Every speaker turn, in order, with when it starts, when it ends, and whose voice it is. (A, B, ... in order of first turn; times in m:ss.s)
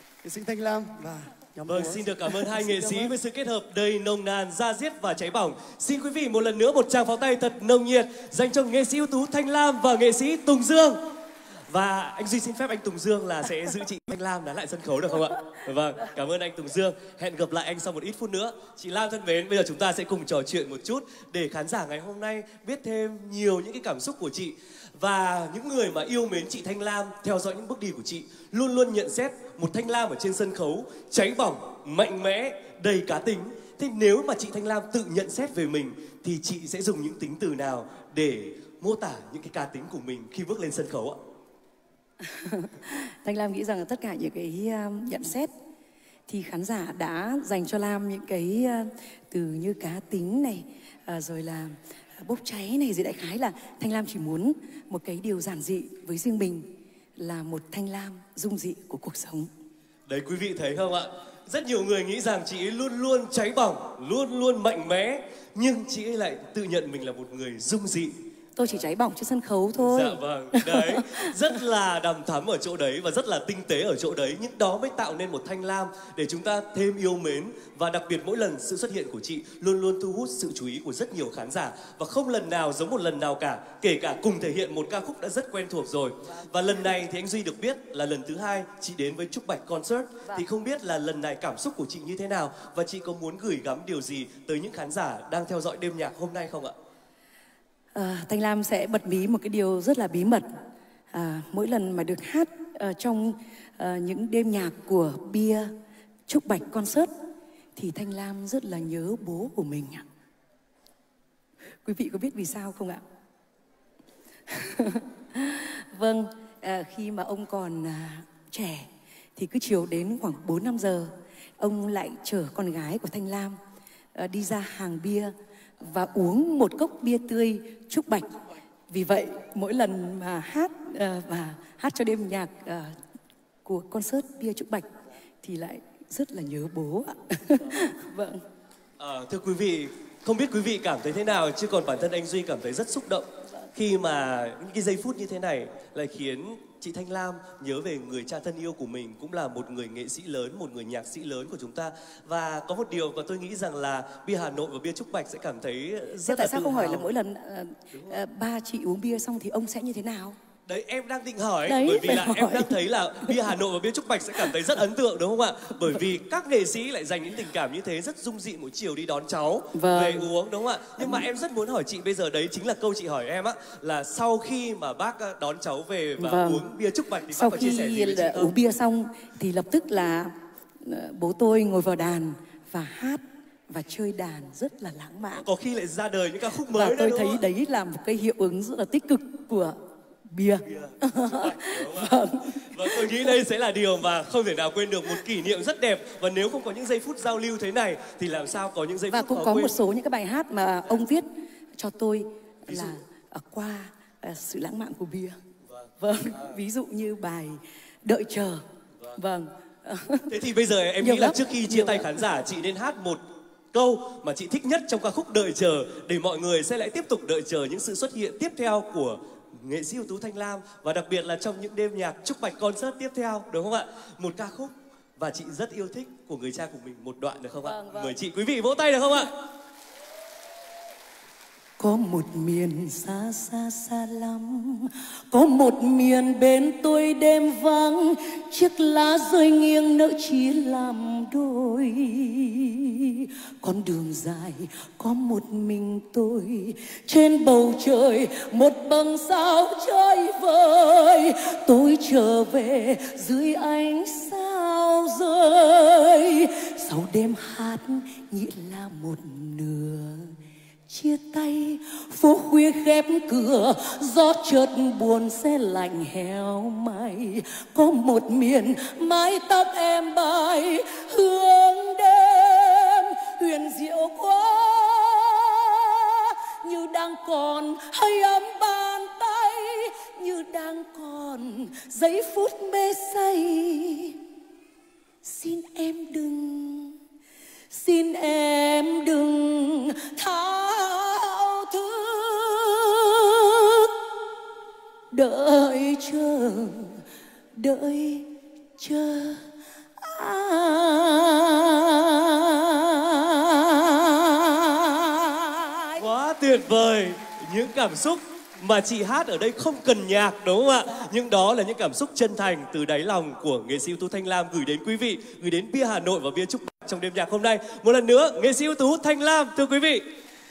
0:00.2-0:02.2 A
0:01.7-0:11.0 B
0:02.7-0:03.1 C
0:11.7-0:41.2 B
0:42.3-0:45.5 C
0:46.3-0:56.7 C
0:57.2-0:59.5 C
1:00.1-1:08.2 B
1:08.6-1:11.3 C
1:09.8-1:36.8 B
1:38.0-1:40.5 C
1:41.1-1:45.7 C
1:46.3-1:47.1 C
1:47.8-1:50.0 C
1:51.8-1:53.0 C
1:54.5-2:03.6 C
2:04.2-2:08.3 C
2:08.9-2:12.9 C
2:13.6-2:14.9 C
2:15.4-2:18.4 C
2:19.0-2:37.1 B
2:36.2-2:40.4 C
2:40.7-2:58.6 B
2:41.6-2:43.4 C
2:49.7-2:50.3 C
2:51.0-2:51.2 C
2:56.2-2:56.6 C
2:57.3-3:05.5 C
3:05.4-3:07.4 B
3:06.7-3:09.8 C
3:10.3-3:13.4 C
3:10.7-3:19.7 B
3:19.1-3:21.3 C
3:21.8-3:25.4 C
3:22.7-3:23.0 B
3:26.0-3:28.6 C
3:29.2-3:30.3 C
3:30.3-3:49.3 B
3:31.0-3:32.1 C
3:47.6-3:48.1 C
3:51.8-4:20.4 C
4:20.9-4:44.2 C
4:45.2-4:47.0 C
4:47.7-4:53.9 C
4:55.1-4:57.0 C
4:57.6-4:59.4 C
5:00.0-5:06.0 C
5:06.0-5:20.0 B